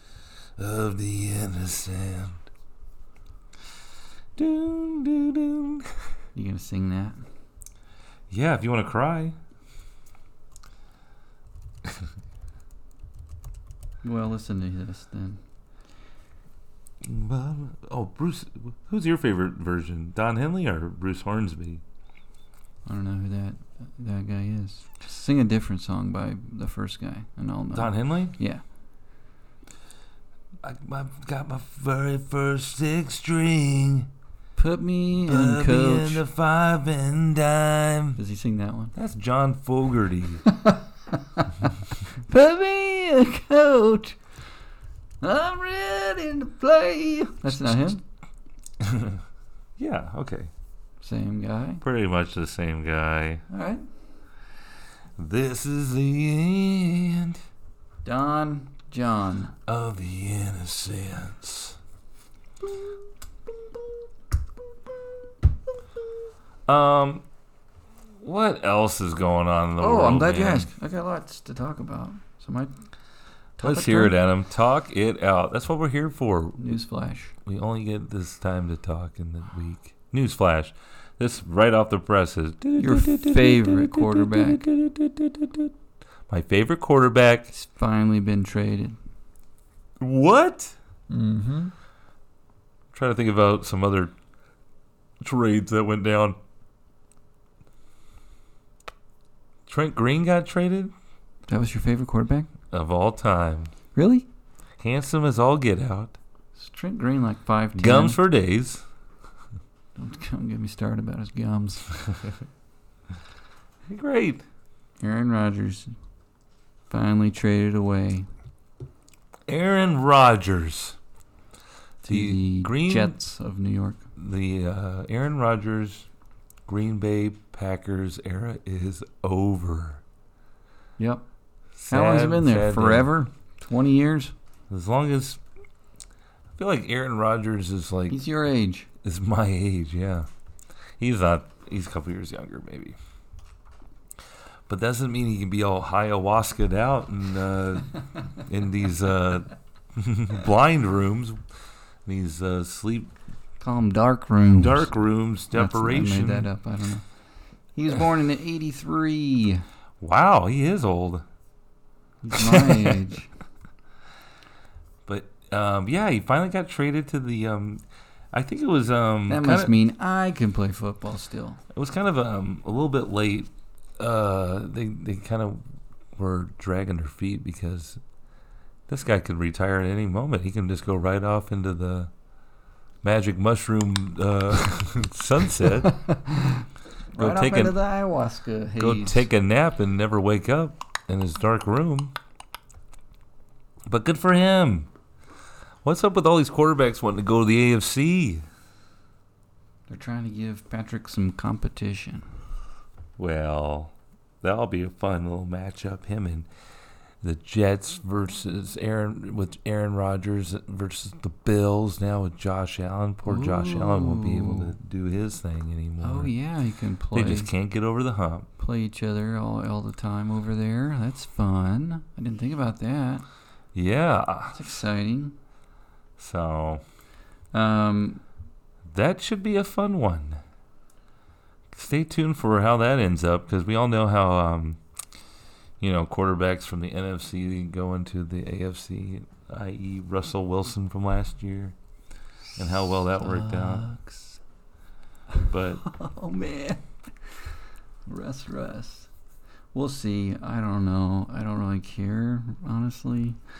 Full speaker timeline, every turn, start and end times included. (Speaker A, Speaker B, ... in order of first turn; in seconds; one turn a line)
Speaker A: 0.6-2.4
Speaker A: 4.3-5.9
Speaker B: 6.3-7.2
Speaker A: 8.3-9.3
Speaker B: 14.0-15.4
Speaker A: 17.0-21.8
Speaker B: 22.8-28.6
Speaker A: 27.7-28.4
Speaker A: 30.6-34.1
Speaker B: 34.5-36.2
Speaker A: 35.2-38.2
Speaker B: 38.2-38.9
Speaker A: 38.9-40.4
Speaker B: 40.5-44.2
Speaker B: 45.2-48.0
Speaker A: 48.8-49.2
Speaker A: 49.8-50.5
Speaker B: 51.0-51.8
Speaker A: 51.8-53.4
Speaker B: 53.5-53.8
Speaker A: 55.2-57.4
Speaker B: 58.0-59.5
Speaker A: 59.7-61.8
Speaker A: 66.7-67.2
Speaker A: 68.2-70.7
Speaker B: 69.8-72.8
Speaker B: 73.6-74.2
Speaker A: 73.6-76.6
Speaker B: 76.6-77.3
Speaker A: 77.4-85.7
Speaker B: 82.8-84.6
Speaker A: 86.3-87.5
Speaker B: 87.5-89.0
Speaker A: 90.0-90.8
Speaker B: 91.1-91.7
Speaker A: 92.9-94.1
Speaker A: 95.2-96.4
Speaker A: 99.7-100.9
Speaker B: 101.5-102.5
Speaker A: 102.7-103.7
Speaker B: 103.9-104.3
Speaker A: 104.8-106.2
Speaker B: 106.5-108.2
Speaker A: 107.8-108.8
Speaker B: 110.0-111.8
Speaker A: 113.9-114.4
Speaker B: 115.0-115.9
Speaker B: 116.9-118.3
Speaker A: 119.5-121.0
Speaker B: 122.0-124.0
Speaker A: 122.1-123.1
Speaker A: 124.2-126.1
Speaker A: 126.7-130.0
Speaker B: 131.0-131.2
Speaker A: 131.8-133.1
Speaker B: 131.9-134.3
Speaker A: 134.7-135.4
Speaker A: 136.6-138.2
Speaker B: 138.1-138.9
Speaker A: 139.0-140.3
Speaker A: 141.0-142.9
Speaker A: 144.7-151.4
Speaker A: 152.0-153.1
Speaker B: 153.6-154.9
Speaker A: 154.6-156.5
Speaker B: 155.5-157.0
Speaker B: 157.7-159.6
Speaker A: 160.0-161.2
Speaker B: 162.2-163.3
Speaker A: 162.3-163.0
Speaker A: 165.1-167.8
Speaker A: 168.3-169.7
Speaker B: 169.3-171.6
Speaker A: 171.7-175.6
Speaker A: 176.2-178.0
Speaker A: 178.9-182.1
Speaker A: 183.0-186.0
Speaker B: 185.6-189.3
Speaker A: 187.2-187.7
Speaker A: 188.8-192.1
Speaker A: 193.9-194.9
Speaker A: 195.8-198.4
Speaker B: 199.9-202.3
Speaker A: 203.2-206.5
Speaker A: 207.2-216.3
Speaker B: 213.2-214.7
Speaker B: 216.0-217.5
Speaker A: 217.1-218.5
Speaker B: 218.6-223.2
Speaker A: 223.7-224.6
Speaker B: 224.5-225.3
Speaker A: 226.2-226.8
Speaker B: 227.5-228.2
Speaker A: 228.9-230.4
Speaker A: 231.7-234.8
Speaker A: 235.8-241.7
Speaker A: 242.6-243.9
Speaker B: 242.9-244.4
Speaker A: 245.5-245.8
Speaker B: 245.8-247.5
Speaker B: 248.1-249.1
Speaker B: 249.7-253.4